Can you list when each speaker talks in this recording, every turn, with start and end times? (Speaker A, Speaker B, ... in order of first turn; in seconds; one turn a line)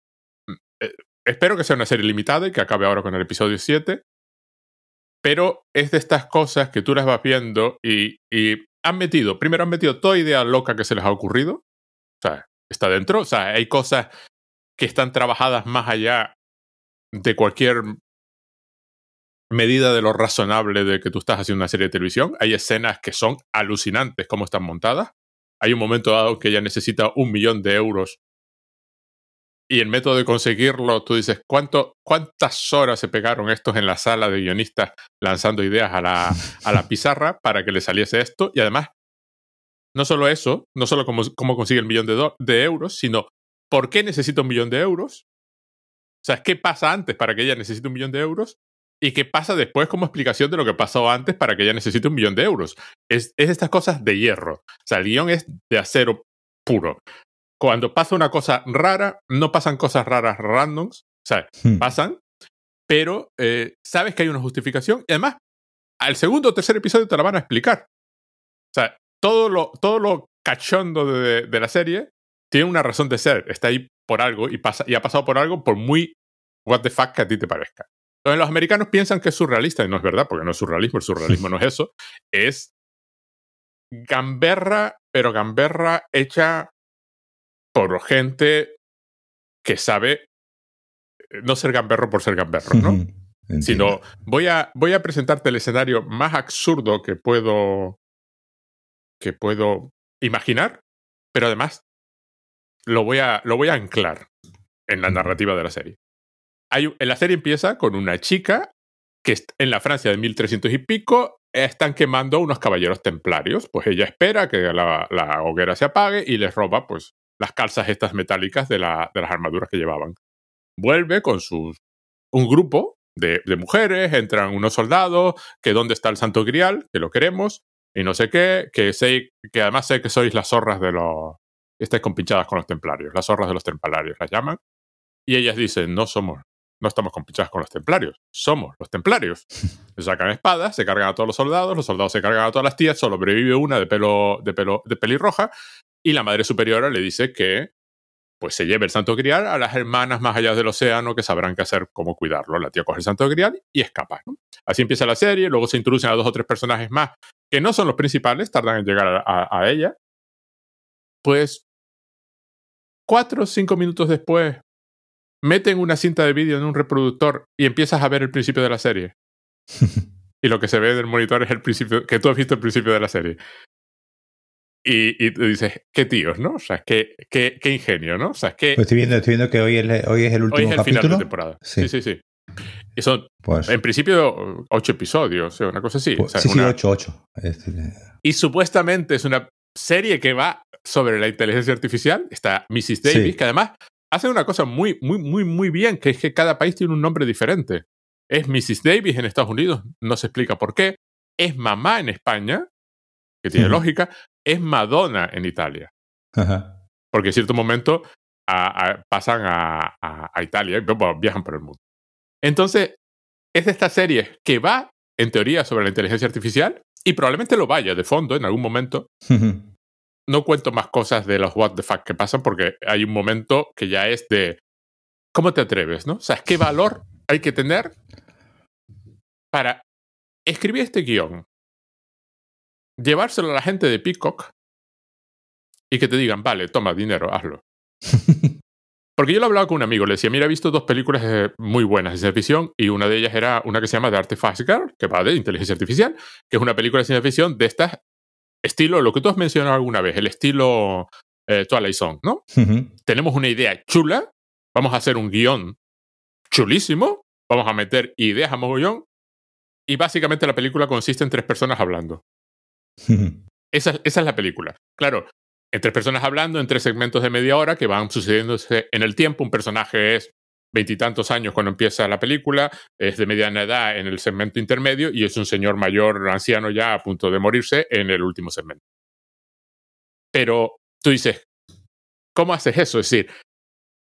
Speaker A: 0.5-4.0
Speaker A: 5.2-11.6
Speaker A: 12.2-14.1
Speaker A: 14.8-16.3
Speaker A: 17.1-18.0
Speaker A: 19.5-28.2
Speaker A: 29.7-38.9
Speaker A: 40.0-45.2
Speaker A: 46.2-57.0
Speaker A: 57.6-62.2
Speaker B: 61.6-61.9
Speaker A: 62.9-65.4
Speaker A: 66.0-67.9
Speaker A: 68.7-76.1
Speaker A: 76.7-82.7
Speaker A: 83.9-86.7
Speaker A: 87.8-88.8
Speaker A: 89.6-90.3
Speaker A: 91.3-93.0
Speaker B: 92.7-94.0
Speaker A: 93.6-98.0
Speaker A: 99.2-100.8
Speaker A: 101.3-101.8
Speaker A: 102.9-104.3
Speaker A: 104.9-106.0
Speaker A: 106.7-108.7
Speaker A: 109.2-120.2
Speaker A: 120.8-121.8
Speaker A: 122.3-134.6
Speaker A: 135.3-145.5
Speaker A: 146.0-147.7
Speaker A: 148.4-159.9
Speaker A: 161.2-161.6
Speaker A: 163.1-164.6
Speaker A: 165.4-169.1
Speaker B: 169.8-170.1
Speaker A: 170.4-173.4
Speaker A: 174.8-178.8
Speaker B: 178.8-181.9
Speaker A: 180.5-182.2
Speaker A: 182.9-186.8
Speaker B: 183.4-183.7
Speaker B: 186.2-188.0
Speaker A: 188.2-202.7
Speaker B: 193.1-193.3
Speaker A: 203.4-205.9
Speaker B: 206.3-206.7
Speaker A: 207.1-211.8
Speaker A: 212.4-213.0
Speaker A: 213.6-219.1
Speaker B: 219.3-219.7
Speaker A: 220.3-224.6
Speaker A: 225.3-227.9
Speaker A: 229.5-229.8
Speaker A: 230.5-231.4
Speaker A: 233.0-234.5
Speaker A: 235.9-237.6
Speaker B: 238.1-238.5
Speaker A: 239.2-248.0
Speaker A: 248.6-252.4
Speaker B: 252.5-252.9
Speaker A: 253.1-255.8
Speaker A: 256.5-259.0
Speaker A: 259.9-262.2
Speaker B: 263.0-263.4
Speaker A: 263.7-278.8
Speaker A: 280.3-281.5
Speaker A: 282.4-283.3